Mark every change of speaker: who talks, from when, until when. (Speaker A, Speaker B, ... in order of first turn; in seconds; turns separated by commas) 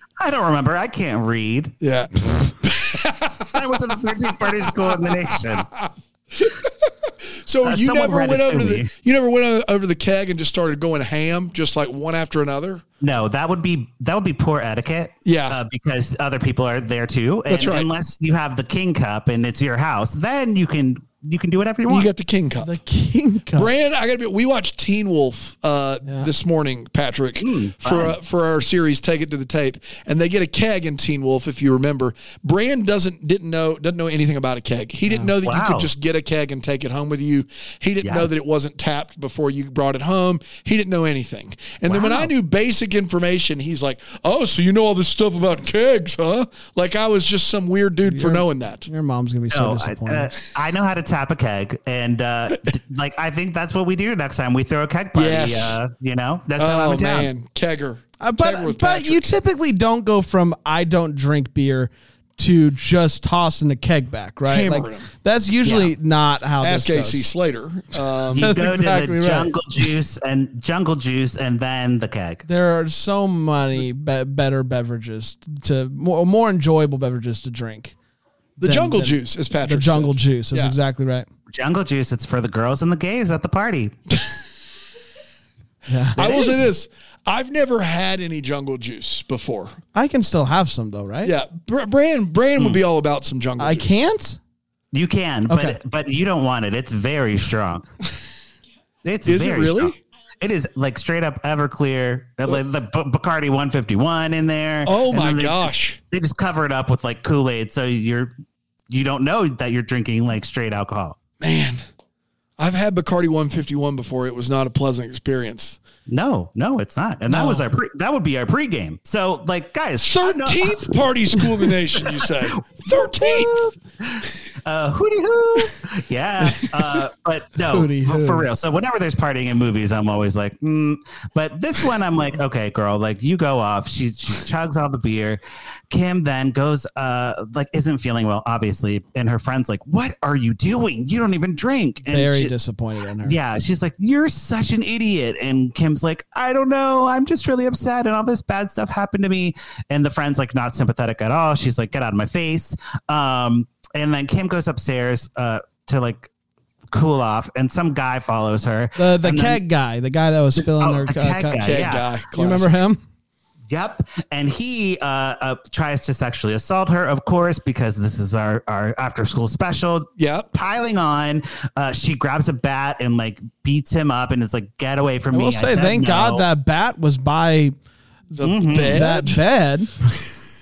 Speaker A: 0.2-1.7, Speaker B: 1.8-3.7, Speaker A: 3.5-5.7, Speaker B: 4.4-12.8, Speaker A: 7.6-8.9, Speaker A: 13.0-22.1, Speaker B: 15.2-15.6, Speaker B: 17.5-17.9, Speaker B: 21.9-22.7, Speaker C: 22.6-23.7, Speaker B: 23.5-48.9, Speaker A: 27.4-28.1, Speaker A: 35.4-35.9, Speaker A: 38.0-38.3, Speaker A: 41.9-42.3, Speaker C: 48.0-50.3, Speaker A: 49.5-57.3, Speaker B: 55.1-55.8, Speaker B: 56.6-59.3, Speaker C: 58.2-67.3, Speaker B: 64.5-65.1, Speaker A: 65.6-65.9, Speaker B: 66.6-68.5, Speaker A: 68.3-72.4, Speaker C: 68.4-69.5, Speaker C: 72.5-77.9, Speaker B: 78.6-80.7, Speaker C: 78.6-81.3, Speaker A: 81.5-83.9, Speaker C: 85.9-86.7, Speaker B: 86.2-89.8, Speaker C: 89.9-91.3, Speaker B: 91.2-94.0, Speaker C: 93.6-94.4, Speaker A: 94.9-97.9, Speaker C: 95.5-95.8, Speaker A: 99.0-108.3, Speaker B: 99.2-100.0, Speaker B: 104.8-106.0, Speaker A: 108.9-111.2, Speaker B: 111.4-111.8, Speaker B: 112.6-115.8, Speaker A: 116.1-142.5, Speaker B: 120.0-123.7, Speaker B: 126.6-126.9, Speaker C: 127.7-128.5, Speaker C: 142.1-143.4, Speaker A: 143.2-156.3, Speaker A: 156.9-159.6, Speaker C: 159.0-163.0, Speaker A: 160.6-162.1, Speaker B: 161.6-162.7, Speaker A: 163.7-176.4, Speaker B: 170.2-170.5, Speaker C: 175.3-177.7, Speaker B: 178.3-179.4, Speaker C: 178.3-180.0, Speaker A: 178.4-179.1